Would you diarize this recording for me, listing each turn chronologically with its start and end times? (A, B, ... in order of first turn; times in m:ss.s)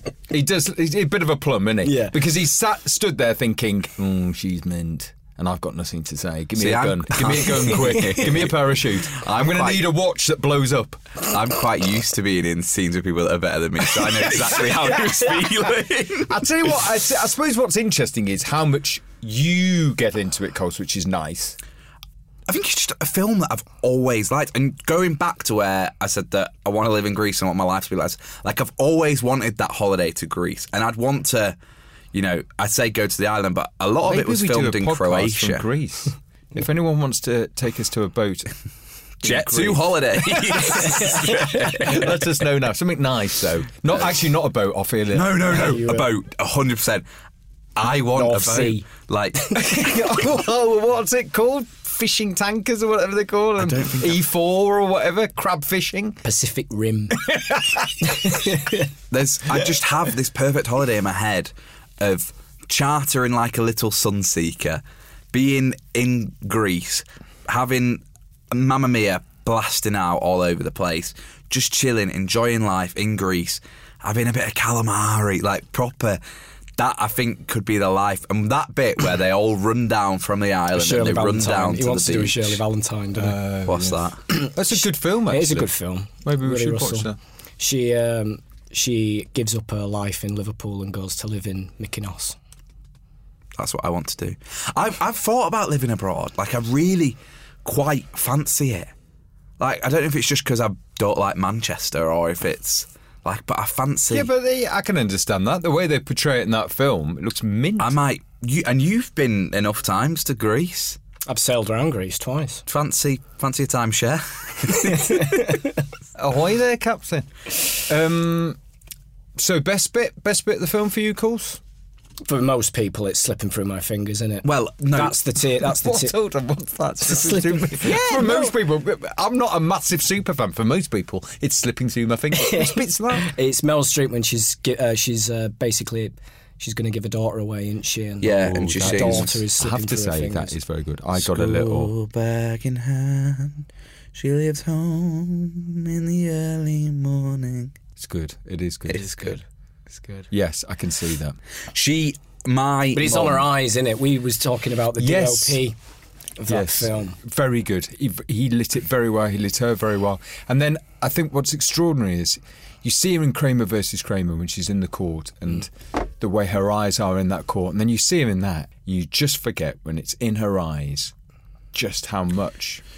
0:00.3-0:11.2 A
0:01.8-0:02.2 B
0:06.6-0:09.9 C
0:11.2-0:16.4 C
0:14.2-0:15.2 A
0:16.2-0:21.6 A
0:22.5-0:31.6 C
0:32.1-0:35.6 C
0:34.0-0:38.5 A
0:39.2-0:45.5 A
0:39.2-0:42.1 C
0:45.1-0:47.0 C
0:45.5-0:46.1 B
0:47.8-0:49.7 C
0:48.1-0:48.9 B
0:49.5-0:56.2 A
0:53.6-0:54.2 C
0:56.2-0:57.2 B
0:57.2-0:58.3 A
0:58.0-0:58.8 B
0:59.1-1:16.2 C
1:16.8-1:22.6 C
1:20.7-1:23.4 B
1:23.2-1:27.2 A
1:23.6-1:24.2 C
1:25.3-1:32.4 B
1:33.6-1:38.9 C
1:39.6-1:44.3 C
1:44.1-1:48.0 A
1:47.8-1:51.0 C
1:51.3-1:52.6 B
1:52.7-1:55.4 C
1:55.1-1:55.5 B
1:56.2-1:58.6 A
1:59.4-2:01.6 A
2:02.2-2:06.2 B
2:04.4-2:05.2 C
2:05.6-2:13.3 A
2:07.0-2:08.5 B
2:12.3-2:20.6 B
2:18.2-2:19.3 C
2:18.3-2:21.9 A
2:21.2-2:27.8 C
2:28.0-2:29.4 A
2:28.9-2:29.4 C
2:30.3-2:31.4 A
2:31.7-2:33.5 C
2:32.9-2:35.8 B
2:35.0-2:35.6 A
2:36.4-2:37.2 B
2:36.5-2:51.1 A
2:51.7-2:52.8 A